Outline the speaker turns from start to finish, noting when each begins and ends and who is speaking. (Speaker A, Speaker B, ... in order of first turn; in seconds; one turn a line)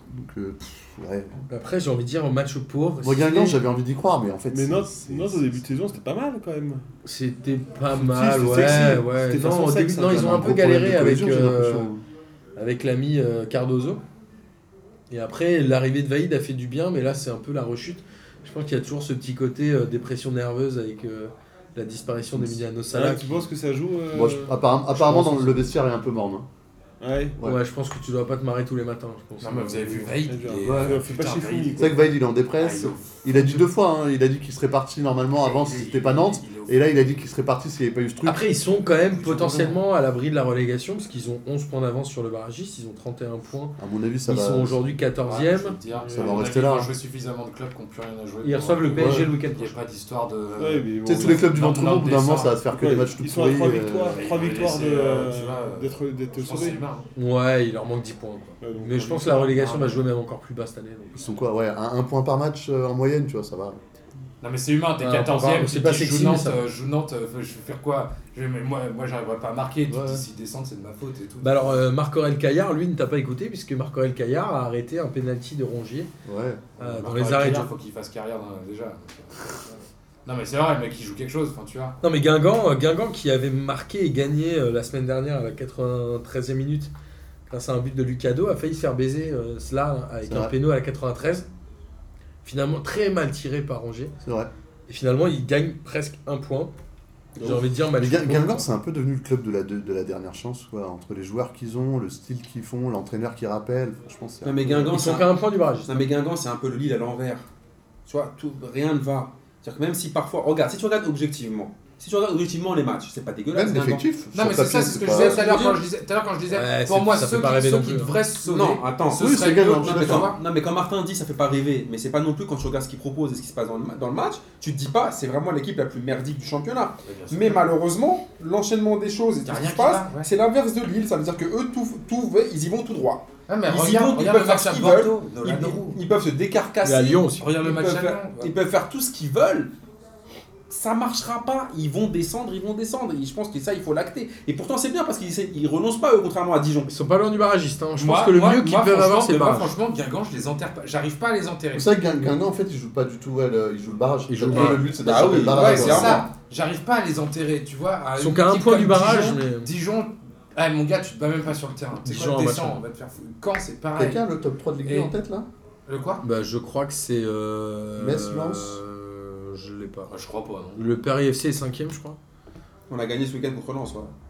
Speaker A: 0.1-1.4
Speaker B: 1.5-3.6
Speaker A: 3.0-5.6
Speaker C: 4.5-6.8
Speaker B: 7.0-11.9
Speaker C: 7.9-10.3
Speaker A: 10.0-12.0
Speaker B: 12.6-14.0
Speaker B: 15.1-23.5
Speaker A: 22.3-22.6
Speaker C: 22.9-25.4
Speaker A: 24.1-26.5
Speaker B: 25.0-25.5
Speaker C: 27.0-27.4
Speaker B: 27.4-30.2
Speaker D: 29.4-32.0
Speaker C: 30.3-32.0
Speaker A: 31.8-38.4
Speaker D: 32.6-33.6
Speaker D: 35.4-37.1
Speaker B: 38.2-45.8
Speaker D: 38.9-39.8
Speaker A: 43.8-44.8
Speaker D: 45.3-52.6
Speaker C: 46.0-46.4
Speaker A: 46.1-46.9
Speaker B: 48.4-49.8
Speaker A: 49.0-49.3
Speaker C: 50.6-51.6
Speaker A: 51.0-54.2
Speaker C: 52.7-56.8
Speaker D: 54.1-57.1
Speaker B: 57.2-61.2
Speaker C: 58.6-60.0
Speaker A: 61.1-63.8
Speaker D: 64.4-71.8
Speaker B: 65.0-66.6
Speaker A: 69.9-70.2
Speaker B: 71.4-76.1
Speaker A: 76.3-76.7
Speaker D: 76.8-82.0
Speaker B: 76.8-77.7
Speaker B: 82.0-86.9
Speaker B: 87.5-91.5
Speaker A: 90.2-90.5
Speaker B: 92.4-94.1
Speaker A: 94.2-94.5
Speaker B: 94.9-96.7
Speaker A: 97.4-104.9
Speaker B: 97.4-98.7
Speaker E: 104.4-107.5
Speaker B: 104.7-106.0
Speaker E: 108.1-114.0
Speaker A: 113.5-115.4
Speaker D: 114.3-120.4
Speaker E: 115.1-115.8
Speaker B: 116.5-118.2
Speaker E: 118.5-139.7
Speaker A: 119.1-120.3
Speaker D: 127.1-127.7
Speaker D: 129.4-130.3
Speaker D: 133.5-136.0
Speaker B: 136.8-137.5
Speaker D: 137.4-138.5
Speaker E: 140.7-146.9
Speaker B: 146.9-149.7
Speaker D: 148.0-152.1
Speaker A: 151.7-156.2
Speaker B: 154.3-154.9
Speaker E: 154.6-156.3
Speaker D: 155.3-164.2
Speaker B: 158.2-159.7
Speaker B: 162.0-162.8
Speaker A: 164.0-165.5
Speaker D: 164.8-165.1
Speaker D: 165.9-166.2
Speaker B: 166.2-170.1
Speaker A: 168.0-168.8
Speaker D: 170.1-170.9
Speaker B: 170.8-172.2
Speaker E: 172.9-174.1